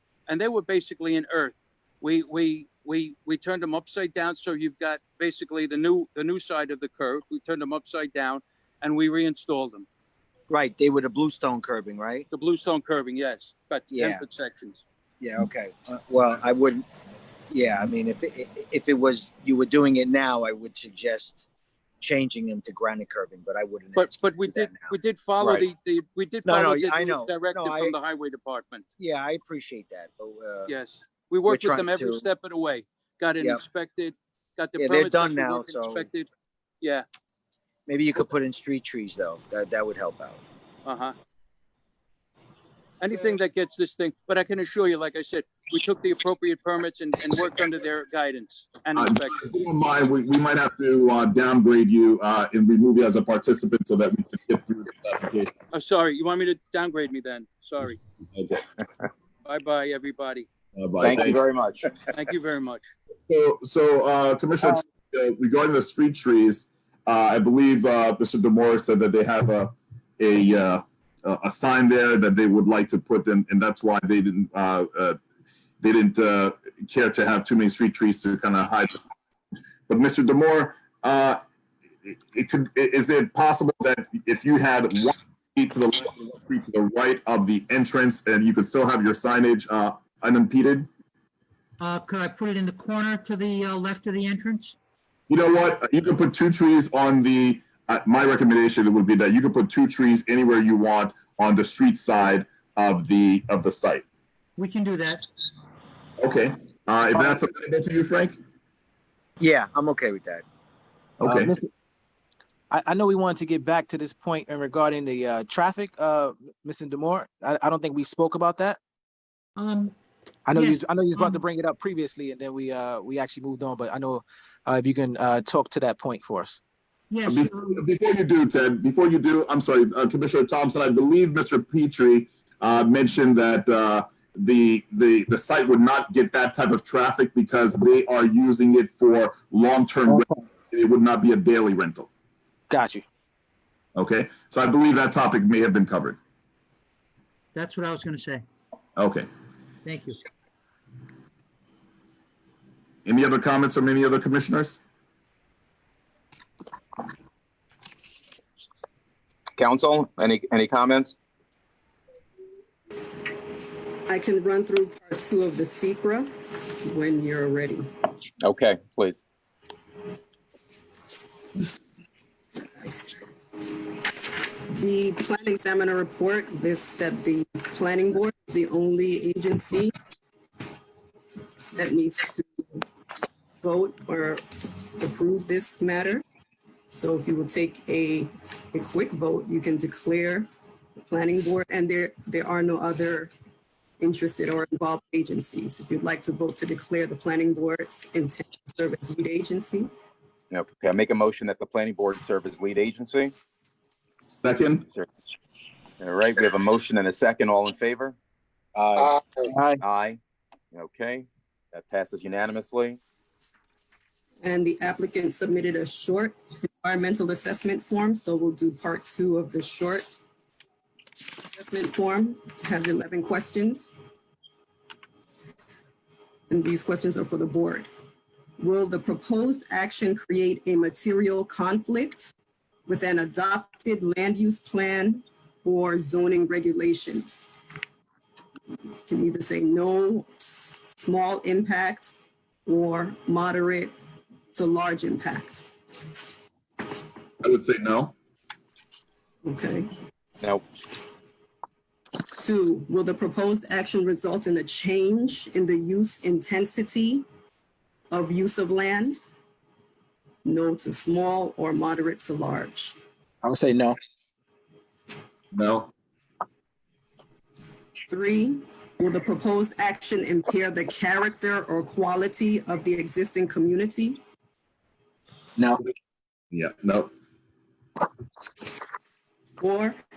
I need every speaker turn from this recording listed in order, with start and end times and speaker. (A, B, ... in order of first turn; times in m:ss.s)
0:00.3-0:09.9 A
0:10.5-0:12.2 B
0:12.3-0:14.8 A
0:13.9-0:14.2 B
0:15.2-0:16.8 B
0:17.5-0:21.5 B
0:22.0-0:25.6 B
0:24.0-0:28.9 A
0:26.4-0:28.0 B
0:29.0-0:30.7 B
0:30.7-0:36.3 A
0:31.5-0:32.3 B
0:34.8-0:36.1 B
0:37.9-0:40.4 B
0:40.8-0:41.2 A
0:43.0-0:49.4 A
0:49.0-0:55.5 C
0:55.7-0:58.0 A
0:58.3-0:58.6 C
0:59.4-1:00.5 A
1:00.8-1:01.5 C
1:01.0-1:01.9 D
1:02.1-1:02.9 A
1:03.3-1:15.2 C
1:15.8-1:19.0 C
1:19.9-1:21.4 C
1:22.1-1:30.9 C
1:31.8-1:34.8 E
1:35.3-1:44.0 C
1:44.6-1:45.2 E
1:46.2-1:48.4 C
1:49.4-1:50.4 B
1:51.2-1:51.6 C
1:51.2-1:51.7 F
1:52.7-1:58.8 F
1:59.6-1:59.9 E
2:00.5-2:06.6 F
2:00.5-2:01.4 E
2:07.1-2:07.8 E
2:07.3-2:22.1 C
2:20.1-2:20.4 F
2:22.7-2:23.0 F
2:24.0-2:26.2 C
2:27.5-2:28.4 E
2:29.0-2:29.3 C
2:29.8-2:30.2 E
2:33.1-2:34.8 C
2:39.6-2:41.2 D
2:44.1-2:46.3 G
2:46.8-2:47.9 G
2:48.4-2:49.2 D
2:54.7-2:59.9 G
3:01.8-3:02.8 G
3:03.6-3:06.2 G
3:06.9-3:13.3 G
3:14.0-3:19.9 G
3:20.5-3:23.3 D
3:24.4-3:24.8 C
3:26.0-3:28.2 D
3:28.8-3:29.2 B
3:29.4-3:29.8 F
3:29.8-3:30.2 D
3:30.7-3:33.0 D
3:34.4-3:40.1 G
3:41.5-3:44.0 G
3:46.5-3:47.9 G
3:48.6-3:52.3 G
3:52.9-3:57.5 G
3:59.1-4:02.1 G
4:02.7-4:03.9 G
4:04.5-4:05.6 G
4:07.4-4:08.1 C
4:09.4-4:09.9 G
4:12.4-4:17.2 G
4:18.1-4:19.2 G
4:20.4-4:23.0 G
4:23.4-4:24.0 F
4:25.5-4:25.9 C
4:28.1-4:34.2 G
4:35.6-4:35.8 F
4:36.5-4:37.1 C
4:39.6-4:40.0 G